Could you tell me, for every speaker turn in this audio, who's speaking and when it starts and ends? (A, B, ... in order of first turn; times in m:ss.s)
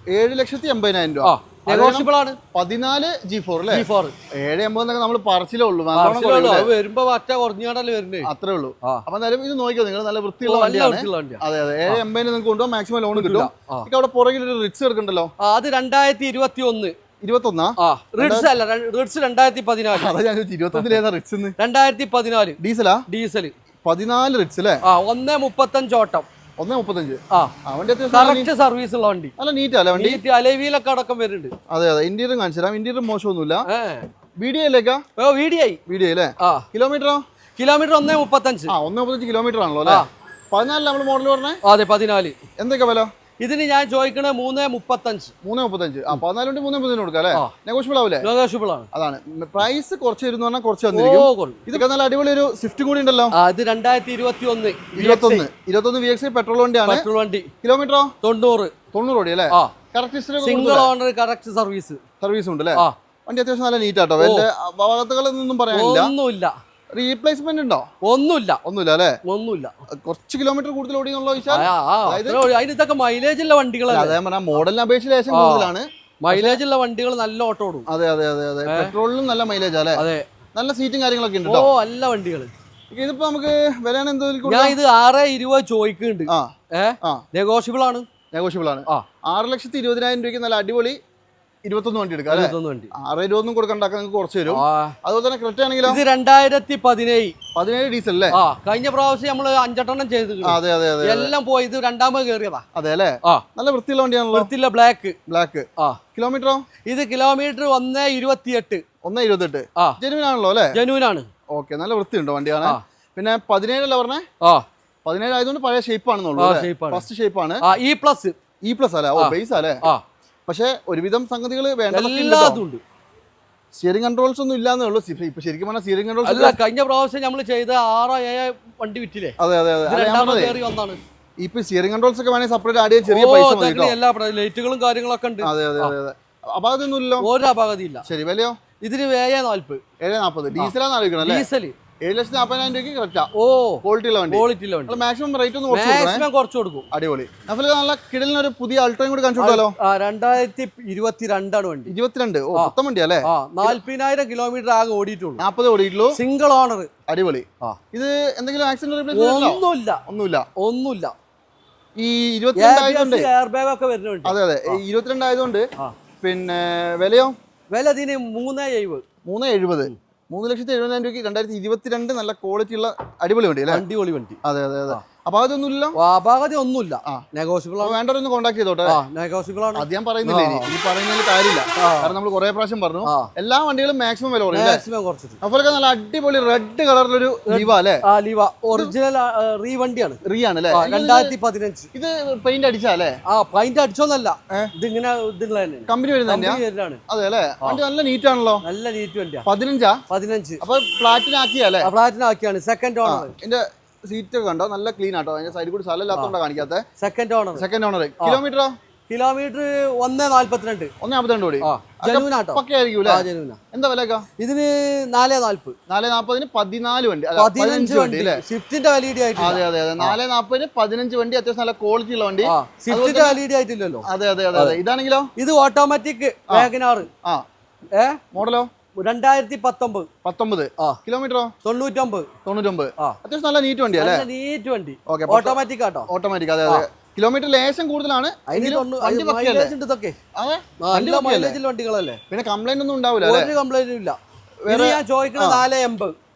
0:00.1-0:06.7 A
0:01.2-0:02.4 B
0:03.7-0:04.1 B
0:05.9-0:08.3 B
0:08.2-0:15.3 A
0:10.4-0:12.0 B
0:13.1-0:13.9 B
0:15.4-0:16.9 B
0:17.2-0:18.5 A
0:17.8-0:20.2 B
0:19.9-0:21.5 A
0:20.7-0:21.0 B
0:21.6-0:23.5 B
0:22.6-0:23.0 A
0:23.8-0:24.8 A
0:24.8-0:26.3 B
0:26.6-0:28.5 A
0:28.1-0:29.3 B
0:29.4-0:30.2 A
0:29.9-0:31.5 B
0:31.7-0:33.7 A
0:33.7-0:34.1 B
0:34.4-0:35.0 A
0:35.2-0:35.8 B
0:35.9-0:37.2 A
0:36.4-0:36.6 B
0:37.6-0:38.7 B
0:38.7-0:41.6 A
0:41.6-0:42.4 B
0:42.6-0:43.1 A
0:43.4-0:45.3 B
0:45.4-0:48.3 A
0:48.2-0:48.9 B
0:48.9-0:53.3 A
0:50.9-0:51.8 B
0:53.3-0:55.5 B
0:54.9-0:57.0 A
0:56.8-0:57.5 B
0:57.6-0:58.1 A
0:58.2-0:58.7 B
0:58.9-1:00.9 A
1:00.4-1:02.0 B
1:02.2-1:06.1 A
1:04.2-1:04.5 B
1:05.7-1:06.5 B
1:07.0-1:07.9 A
1:08.0-1:08.6 B
1:08.6-1:09.2 A
1:09.2-1:09.7 B
1:09.9-1:12.4 A
1:11.5-1:14.2 B
1:13.9-1:16.6 A
1:15.3-1:17.9 B
1:17.9-1:20.0 A
1:18.7-1:18.9 B
1:20.0-1:20.2 B
1:20.5-1:21.7 A
1:21.4-1:22.5 B
1:22.9-1:24.8 A
1:24.4-1:28.1 B
1:28.3-1:31.0 A
1:31.7-1:36.0 A
1:32.3-1:32.9 B
1:34.5-1:35.0 B
1:35.8-1:37.3 B
1:37.5-1:38.4 A
1:38.3-1:42.6 B
1:40.4-1:41.3 A
1:42.7-1:44.5 A
1:44.3-1:45.2 B
1:45.3-1:46.6 A
1:46.8-1:48.8 B
1:49.0-1:50.8 A
1:50.7-1:51.3 B
1:51.5-1:54.2 A
1:55.0-1:57.6 A
1:56.4-1:57.1 B
1:57.6-1:58.4 B
1:58.6-1:59.8 A
1:59.2-2:00.0 B
2:00.5-2:02.6 A
2:01.9-2:02.8 B
2:03.8-2:06.6 A
2:06.2-2:11.0 B
2:09.4-2:10.6 A
2:11.4-2:14.0 A
2:13.0-2:15.9 B
2:15.4-2:17.3 A
2:17.2-2:18.0 B
2:18.0-2:18.5 A
2:18.8-2:19.8 B
2:20.0-2:21.5 A
2:20.6-2:21.7 B
2:22.0-2:23.3 A
2:23.3-2:25.0 B
2:23.8-2:26.2 A
2:25.7-2:26.9 B
2:26.9-2:29.7 A
2:29.4-2:31.9 B
2:31.9-2:33.8 A
2:33.2-2:35.4 B
2:35.4-2:36.2 A
2:36.1-2:36.9 B
2:37.1-2:40.5 A
2:39.1-2:40.0 B
2:40.6-2:41.1 B
2:42.0-2:43.3 A
2:42.6-2:44.8 B
2:44.2-2:45.6 A
2:46.2-2:47.3 A
2:47.7-2:49.0 B
2:49.3-2:53.8 A
2:53.7-2:55.0 B
2:54.4-2:56.0 A
2:55.9-2:58.0 B
2:57.8-2:59.0 A
2:58.9-3:00.7 B
2:59.7-3:04.8 A
3:01.8-3:02.1 B
3:03.0-3:03.3 B
3:04.5-3:05.4 B
3:05.4-3:08.0 A
3:07.5-3:10.2 B
3:10.2-3:11.3 A
3:10.7-3:11.9 B
3:11.9-3:13.2 A
3:13.3-3:17.0 B
3:15.9-3:18.6 A
3:18.6-3:19.4 B
3:19.4-3:20.0 A
3:20.1-3:20.6 B
3:20.6-3:21.9 A
3:21.8-3:23.3 B
3:23.0-3:26.8 A
3:27.0-3:27.6 B
3:27.6-3:28.7 A
3:29.1-3:30.9 B
3:31.0-3:34.2 A
3:31.6-3:33.6 B
3:34.4-3:35.8 B
3:35.9-3:38.4 A
3:37.4-3:40.2 B
3:39.4-3:43.4 A
3:42.4-3:44.8 B
3:44.0-3:45.3 A
3:45.4-3:47.1 B
3:47.9-3:48.2 B
3:48.3-3:48.7 A
3:49.0-3:50.1 B
3:50.2-3:51.5 A
3:51.6-3:52.3 B
3:52.4-3:54.2 A
3:53.9-3:56.1 B
3:55.1-3:59.7 A
3:58.5-4:00.2 B
4:00.4-4:01.6 A
4:00.8-4:02.2 B
4:02.3-4:03.5 A
4:03.2-4:06.1 B
4:04.6-4:05.6 A